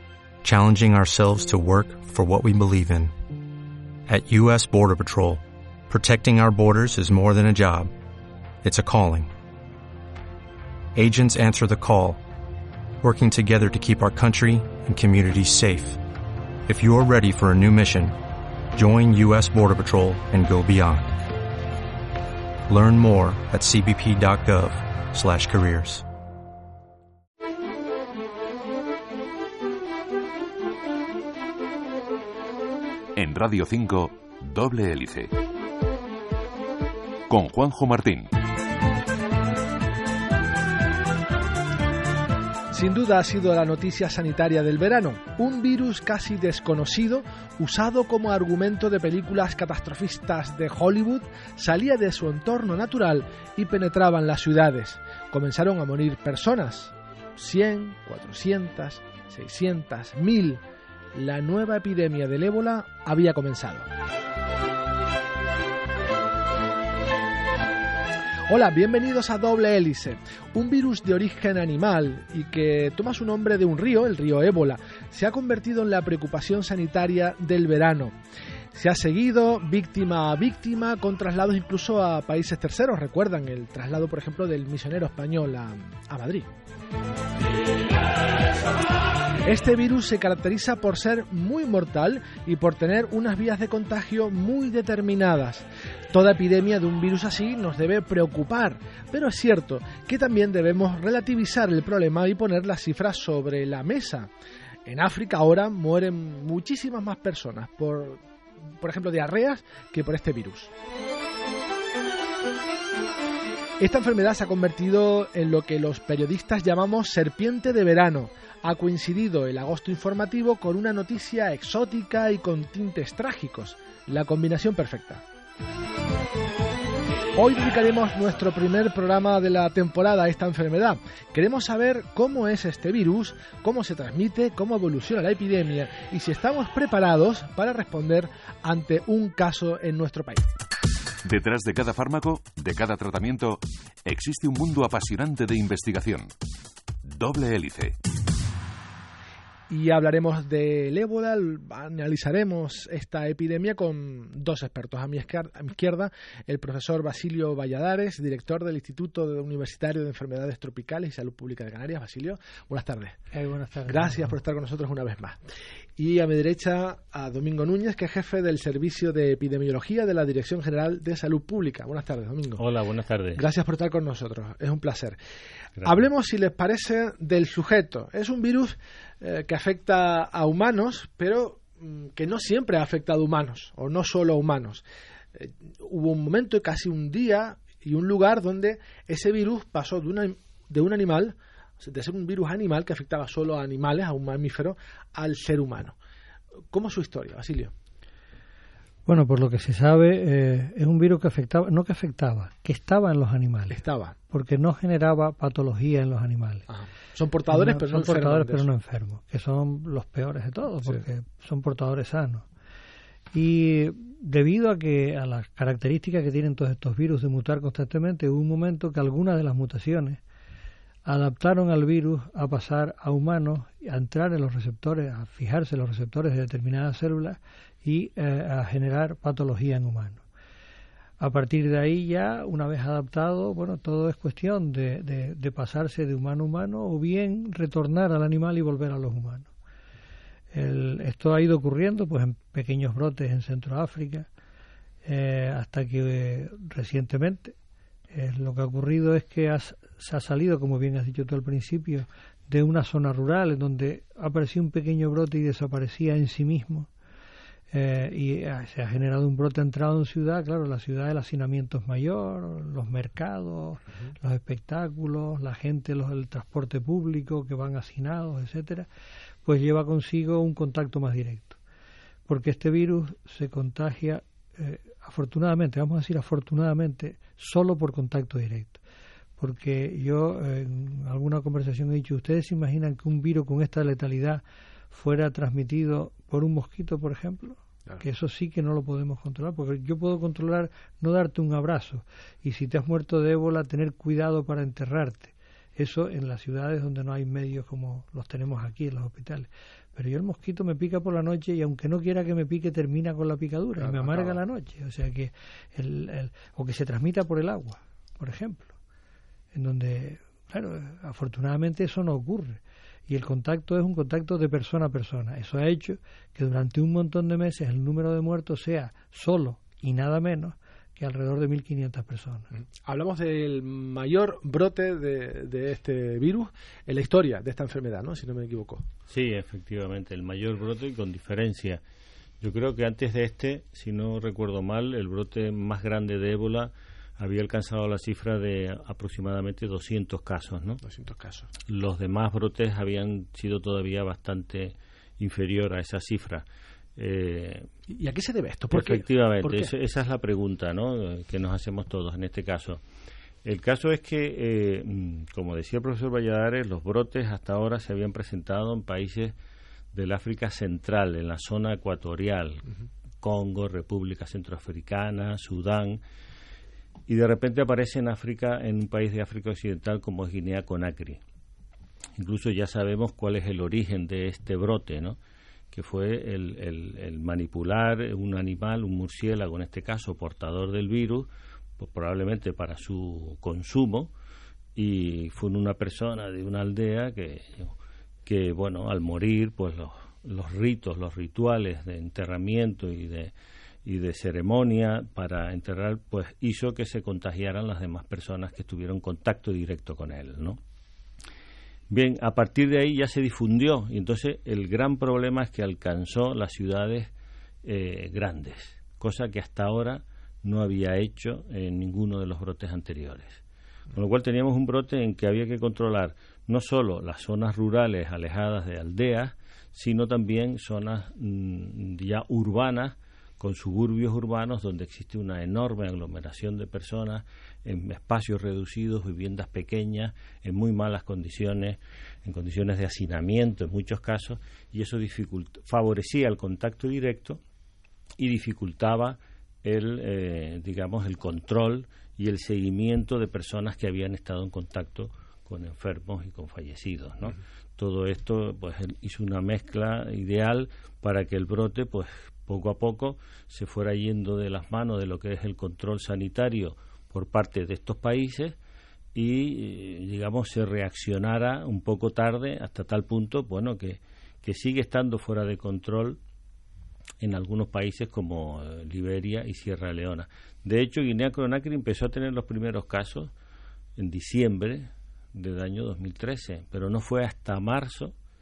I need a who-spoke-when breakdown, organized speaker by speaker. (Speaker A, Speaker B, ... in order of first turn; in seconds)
Speaker A: 0.4-3.1, 4.1-7.9, 8.6-9.3, 10.9-12.2, 13.0-16.0, 16.6-18.2, 18.7-21.3, 22.7-26.0
Speaker B: 33.1-35.3, 37.3-38.3, 141.2-146.3, 147.0-147.9
Speaker C: 42.7-60.6, 61.1-63.9, 68.5-78.1, 78.7-86.5, 89.4-104.3, 104.8-108.2, 108.8-110.7, 113.8-125.2, 127.3-140.5, 149.7-163.2, 163.9-165.4, 166.0-172.6, 173.3-175.2, 175.8-184.8, 185.3-195.9, 196.7-197.7, 203.7-204.2, 206.7-208.7, 303.8-304.4, 322.9-328.8, 340.8-341.5, 347.9-349.7
Speaker D: 163.3-164.3, 199.1-203.8, 204.3-206.6, 207.5-212.4, 213.3-220.2, 221.1-230.2, 231.2-239.5, 240.5-244.3, 245.0-247.5, 248.1-256.9, 257.7-268.9, 269.4-271.6, 272.3-278.8, 279.4-308.7, 309.5-322.5
Speaker E: 172.6-173.4, 329.1-331.8, 332.4-340.8, 341.7-346.4, 346.9-347.7, 348.7-352.8, 353.4-359.3, 359.9-362.7, 363.2-366.0, 367.1-371.2, 372.1-375.2, 375.7-384.1, 384.8-387.7, 388.2-393.3, 393.8-400.6, 401.9-407.1, 407.6-413.4, 413.9-437.4, 438.2-458.6, 459.1-466.2, 467.2-473.3, 474.0-478.1